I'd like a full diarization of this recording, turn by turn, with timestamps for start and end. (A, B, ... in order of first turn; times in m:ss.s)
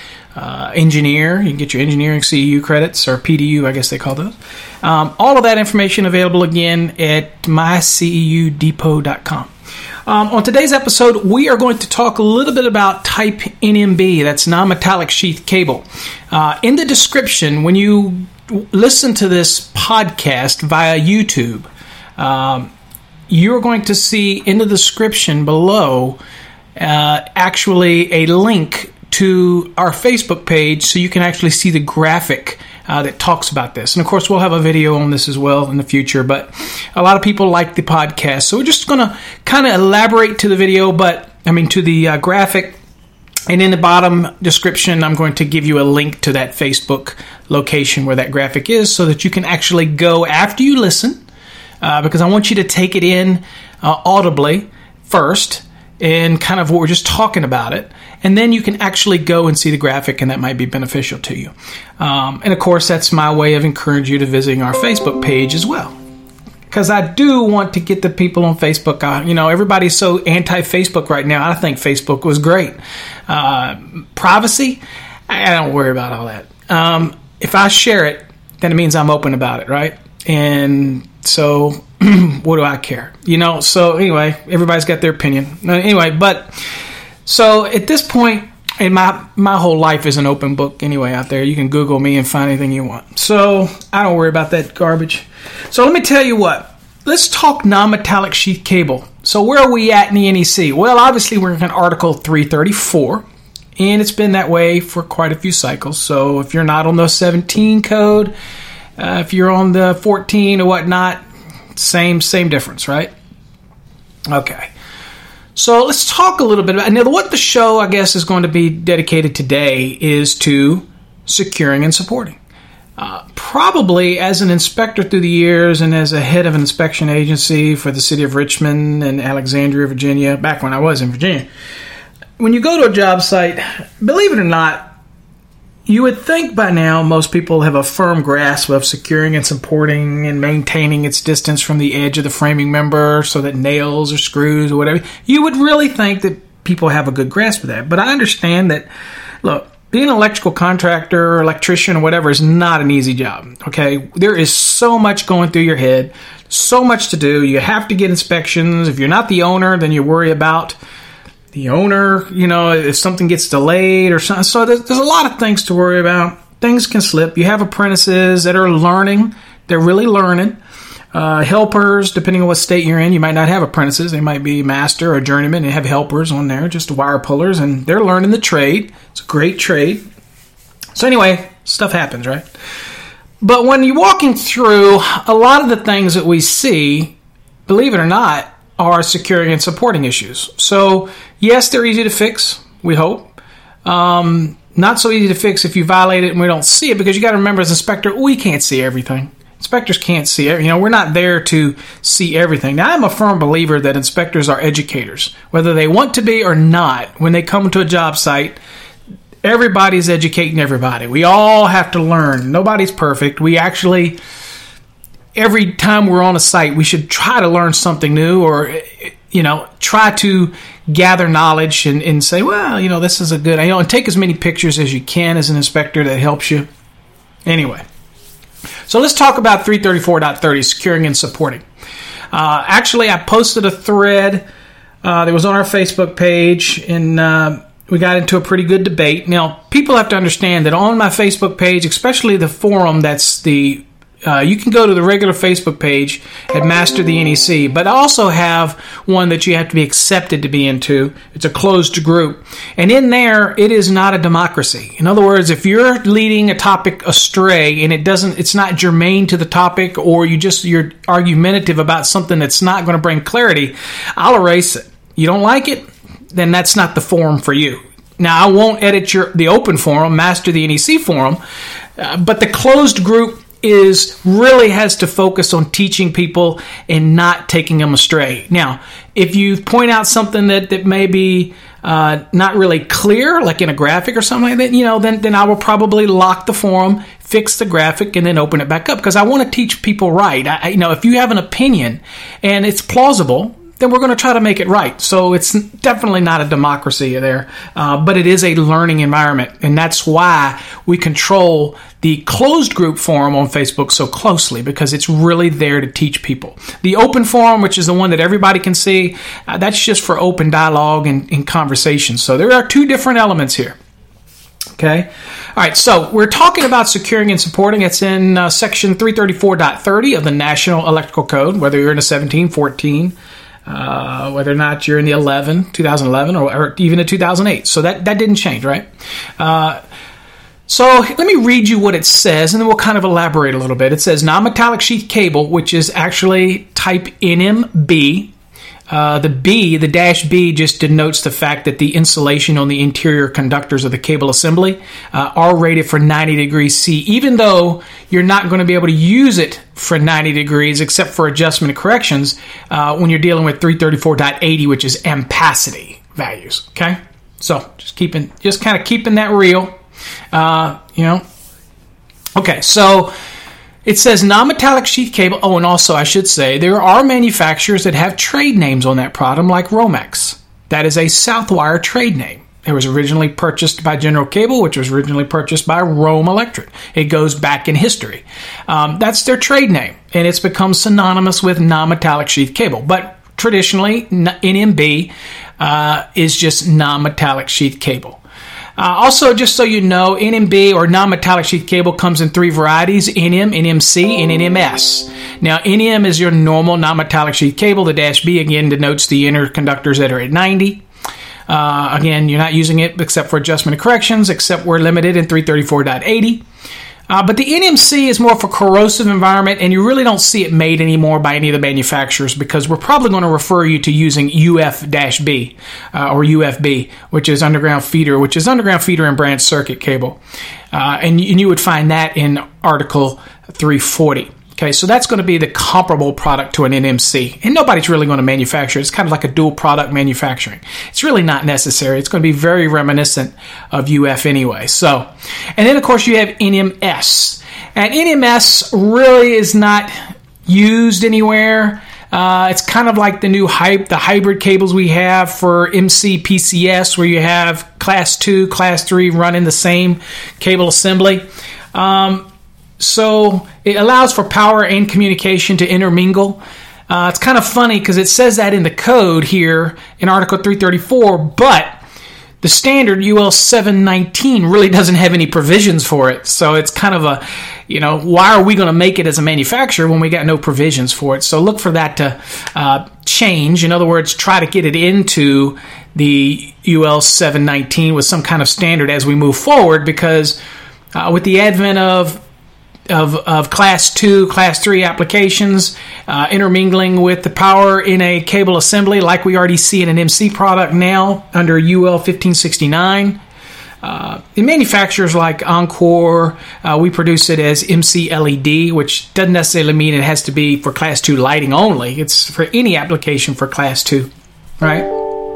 0:00.4-0:09.5 A
0:10.1-0:22.7 A
0:23.3-0:26.2 A
0:26.8-0:42.8 A
0:43.5-0:51.2 A
0:51.8-1:06.0 A
1:06.7-1:12.8 A
1:13.3-1:26.5 A
1:27.2-1:43.2 A
1:43.8-1:48.3 A
1:49.0-1:51.2 A
1:51.8-1:53.1 A
1:54.3-1:54.7 A
1:55.6-2:02.4 A
2:03.0-2:11.5 A
2:12.4-2:14.9 A
2:15.9-2:28.9 A
2:29.4-2:40.8 A
2:41.5-2:50.6 A
2:51.1-3:00.0 A
3:01.0-3:02.5 A
3:03.4-3:13.3 A
3:13.8-3:28.6 A
3:29.4-3:34.2 A
3:35.4-3:46.7 A
3:47.5-3:47.8 A
3:48.9-3:51.6 A
3:52.3-3:54.4 A
3:55.0-4:31.4 A
4:32.0-5:13.8 A
5:14.8-5:23.2 A
5:23.7-5:28.9 A
5:29.4-5:29.8 A
5:30.7-5:38.3 A
5:38.9-5:59.8 A
6:00.3-6:01.2 A
6:02.4-6:03.1 A
6:03.8-6:28.2 A
6:28.8-6:40.8 A
6:41.5-6:46.4 A
6:47.1-7:00.2 A
7:00.7-7:19.9 A
7:20.5-7:32.3 A
7:32.8-7:41.8 A
7:42.4-8:00.4 A
8:00.9-8:02.2 A
8:02.9-8:13.2 A
8:13.8-8:24.9 A